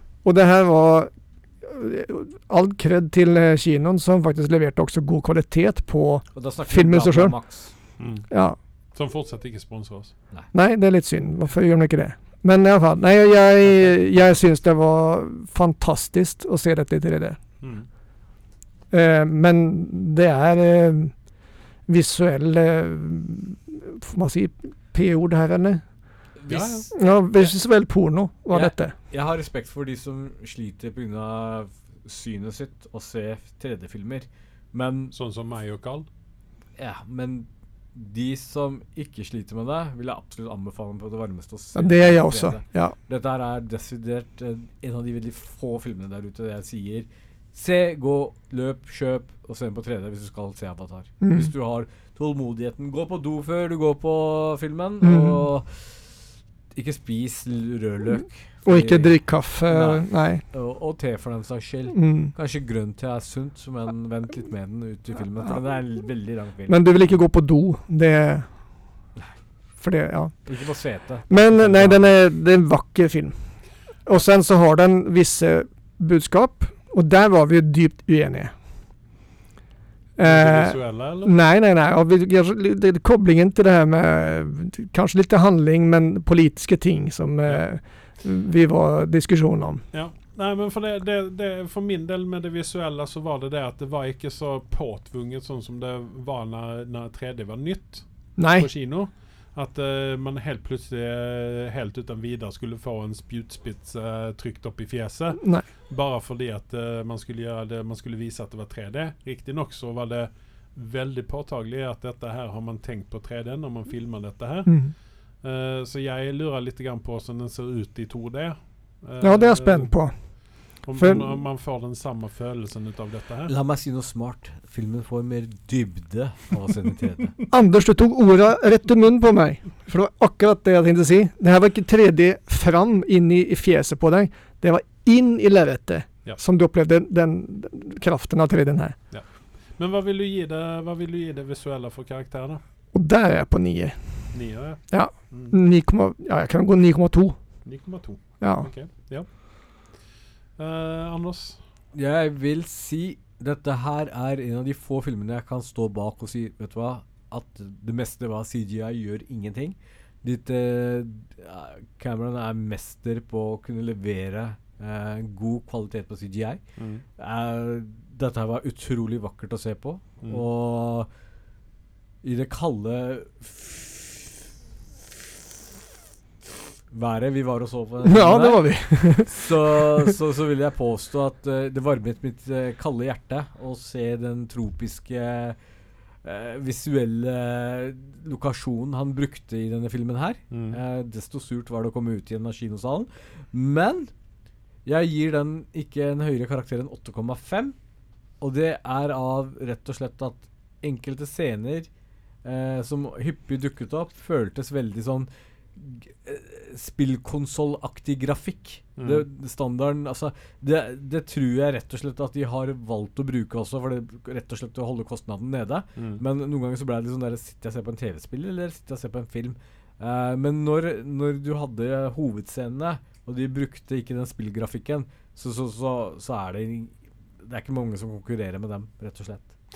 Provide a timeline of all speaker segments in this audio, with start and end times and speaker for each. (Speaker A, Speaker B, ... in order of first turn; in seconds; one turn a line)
Speaker A: 0.2-1.1
Speaker A: 1.6-7.3
Speaker B: 6.3-7.7
Speaker C: 8.0-8.3
Speaker A: 8.3-8.6
Speaker C: 8.9-10.1
Speaker A: 10.5-17.4
Speaker C: 17.6-17.9
Speaker A: 18.9-21.1
Speaker A: 21.9-25.8
Speaker B: 26.4-26.9
Speaker C: 26.5-26.9
Speaker A: 26.9-28.9
Speaker B: 28.5-35.1
Speaker C: 35.1-36.1
Speaker B: 36.8-56.1
Speaker A: 41.8-43.0
Speaker A: 51.2-51.5
Speaker A: 55.0-55.5
Speaker B: 56.8-67.0
Speaker A: 58.7-60.4
Speaker A: 61.9-62.3
Speaker A: 66.7-68.5
Speaker A: 69.8-70.3
Speaker B: 70.5-72.1
Speaker A: 71.3-73.3
Speaker A: 74.1-78.5
Speaker A: 80.2-89.8
Speaker C: 80.2-81.3
Speaker C: 89.9-114.7
Speaker A: 98.4-98.7
Speaker A: 105.4-105.7
Speaker A: 114.7-114.9
Speaker C: 115.4-119.9
Speaker A: 119.2-120.1
Speaker C: 120.8-123.5
Speaker A: 121.0-121.3
Speaker B: 123.5-127.4
Speaker A: 127.5-139.0
Speaker C: 139.8-142.6
Speaker A: 142.9-144.0
Speaker C: 144.3-145.6
Speaker A: 144.9-147.4
Speaker C: 147.7-149.3
Speaker A: 148.4-148.7
Speaker C: 150.6-151.6
Speaker B: 151.9-166.6
Speaker C: 166.8-167.1
Speaker B: 167.2-171.1
Speaker B: 172.2-174.3
Speaker B: 176.9-185.6
Speaker A: 178.0-180.1
Speaker B: 186.2-194.1
Speaker C: 190.5-190.8
Speaker B: 194.8-197.8
Speaker B: 198.4-201.9
Speaker B: 202.4-229.5
Speaker C: 209.0-209.3
Speaker C: 216.0-216.2